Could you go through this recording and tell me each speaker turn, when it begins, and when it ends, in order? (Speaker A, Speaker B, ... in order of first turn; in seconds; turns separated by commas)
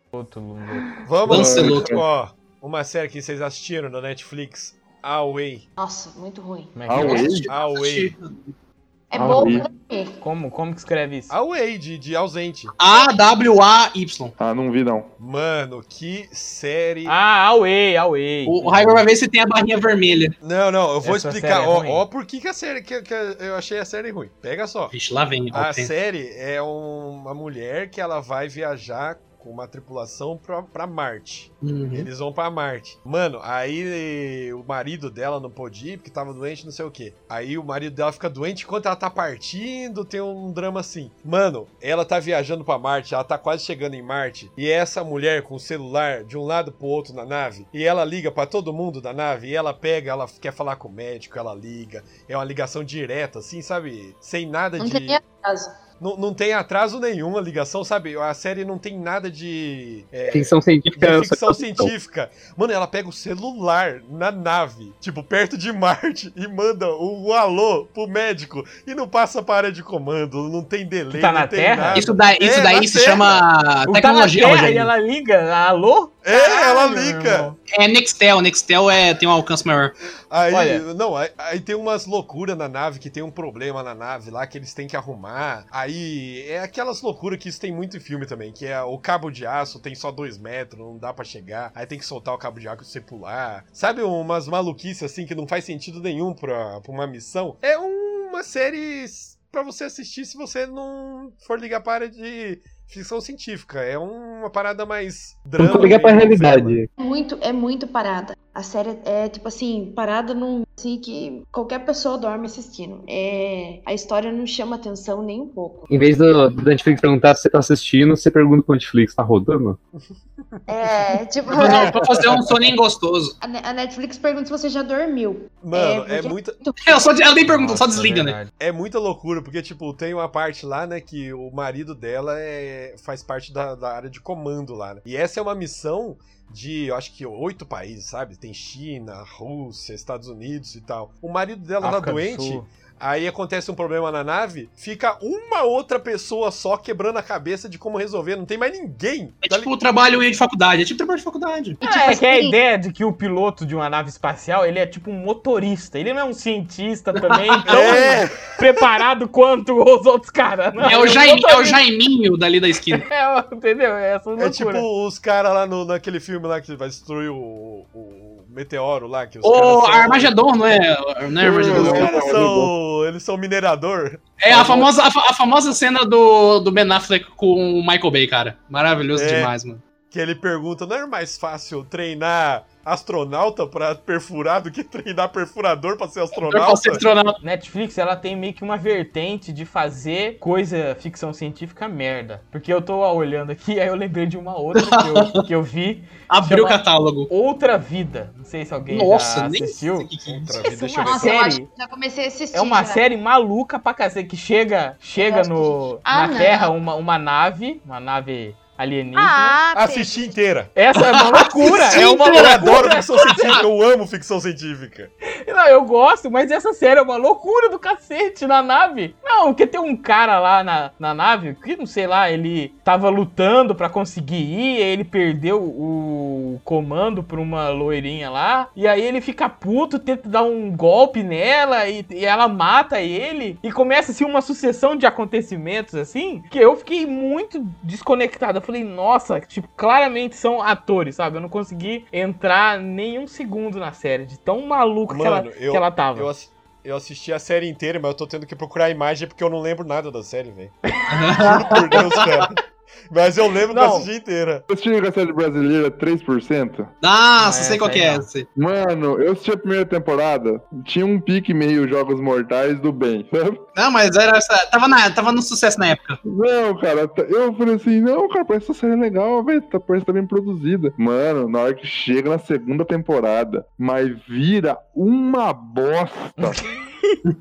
Speaker A: 0.1-0.9, Speaker B: 1.1-5.7, Speaker C: 1.2-2.0, Speaker D: 1.3-2.0, Speaker E: 5.8-6.7, Speaker A: 6.8-7.4, Speaker C: 6.9-7.5, Speaker D: 7.1-8.4, Speaker B: 7.1-8.2, Speaker E: 9.1-10.2, Speaker A: 9.2-9.6, Speaker C: 9.2-9.7, Speaker A: 10.2-11.3, Speaker B: 11.3-12.8, Speaker D: 12.8-14.3, Speaker C: 14.4-15.1, Speaker B: 15.2-17.1, Speaker A: 17.1-19.0, Speaker D: 18.5-20.4, Speaker B: 20.4-24.9, Speaker A: 21.0-22.1, Speaker D: 24.9-25.9, Speaker B: 25.5-55.2, Speaker D: 31.6-32.1, Speaker E: 54.8-55.7, Speaker B: 56.0-73.4, Speaker F: 60.3-61.9, Speaker A: 71.1-72.1, Speaker D: 72.0-74.9, Speaker A: 73.9-77.6, Speaker B: 76.2-77.5, Speaker D: 77.7-79.9, Speaker B: 80.3-106.8, Speaker A: 80.5-80.8, Speaker F: 105.6-106.9, Speaker E: 107.0-115.9, Speaker F: 115.9-119.8, Speaker B: 120.0-120.6, Speaker E: 120.7-121.9, Speaker D: 121.5-123.3, Speaker C: 121.6-122.5, Speaker E: 123.4-127.1, Speaker B: 125.6-126.6, Speaker D: 126.8-128.4, Speaker A: 127.5-128.5, Speaker B: 128.5-149.7, Speaker A: 141.8-142.7, Speaker D: 149.4-151.8, Speaker E: 151.8-152.6, Speaker A: 151.8-161.8, Speaker D: 157.2-158.0, Speaker B: 157.7-158.5, Speaker D: 160.8-163.1, Speaker A: 163.0-164.9, Speaker B: 164.4-170.3, Speaker D: 169.4-172.2, Speaker C: 171.4-172.7, Speaker B: 171.6-174.9, Speaker D: 174.4-179.8, Speaker B: 179.1-179.5, Speaker B: 180.1-187.0, Speaker D: 186.3-187.4, Speaker A: 187.4-201.7, Speaker D: 194.8-195.4, Speaker D: 196.3-197.3, Speaker D: 198.9-200.6, Speaker B: 200.3-201.3, Speaker E: 200.6-203.0, Speaker A: 202.5-209.6, Speaker E: 205.2-206.7, Speaker E: 209.2-210.3, Speaker B: 209.8-210.7, Speaker A: 210.8-213.4, Speaker D: 211.0-213.6, Speaker B: 211.8-215.1, Speaker A: 215.4-246.3, Speaker B: 245.1-250.7, Speaker D: 251.1-252.3, Speaker B: 251.3-252.6, Speaker B: 253.1-254.6, Speaker A: 253.7-254.1, Speaker C: 254.7-256.9, Speaker D: 257.0-258.5, Speaker A: 257.4-258.3, Speaker C: 258.6-263.6, Speaker D: 263.8-266.2, Speaker C: 266.2-276.6, Speaker A: 276.4-277.2